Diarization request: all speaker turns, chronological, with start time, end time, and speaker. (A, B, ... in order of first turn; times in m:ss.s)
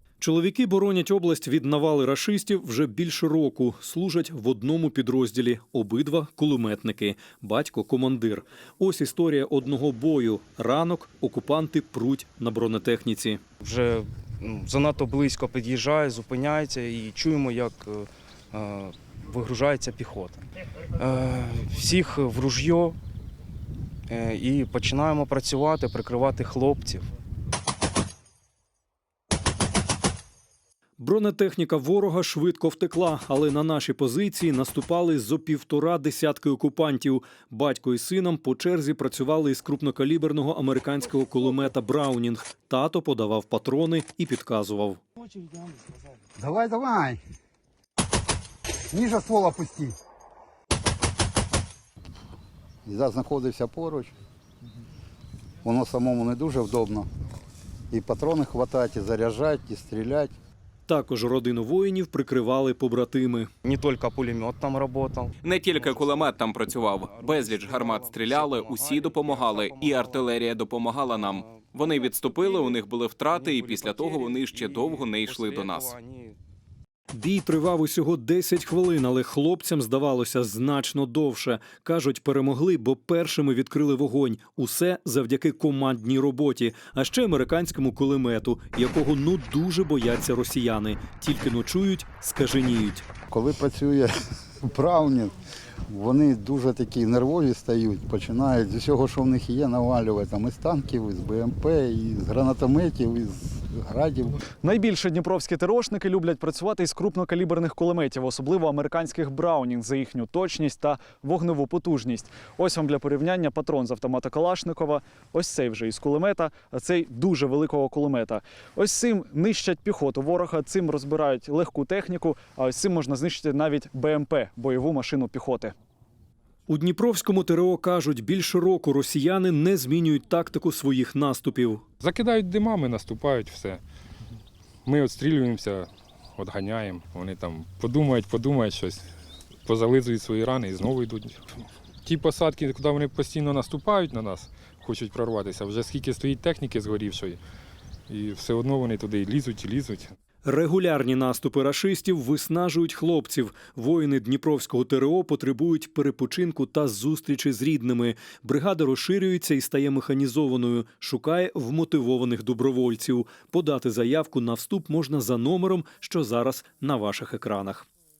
0:00.2-0:13.4 A
0:13.6-0:20.4 B
0:20.9-0:23.0 B
0:24.1-0:27.1 B
0:31.0-0:45.0 A
0:46.4-0:47.2 C
0:48.9-0:50.0 C
0:52.8-0:54.1 C
0:55.6-0:57.1 C
0:57.9-1:00.3 C
1:00.9-1:03.5 A
1:03.6-1:10.3 B
1:05.4-1:15.9 D
1:11.0-1:16.4 B
1:17.1-1:33.1 A
1:33.3-1:35.3 C
1:35.9-1:44.5 C
1:44.6-2:05.7 E
2:06.7-2:11.8 A
2:12.0-2:13.8 F
2:14.8-2:19.1 F
2:19.6-2:21.4 F
2:22.0-2:27.4 F
2:28.1-2:30.1 F
2:30.4-2:47.9 A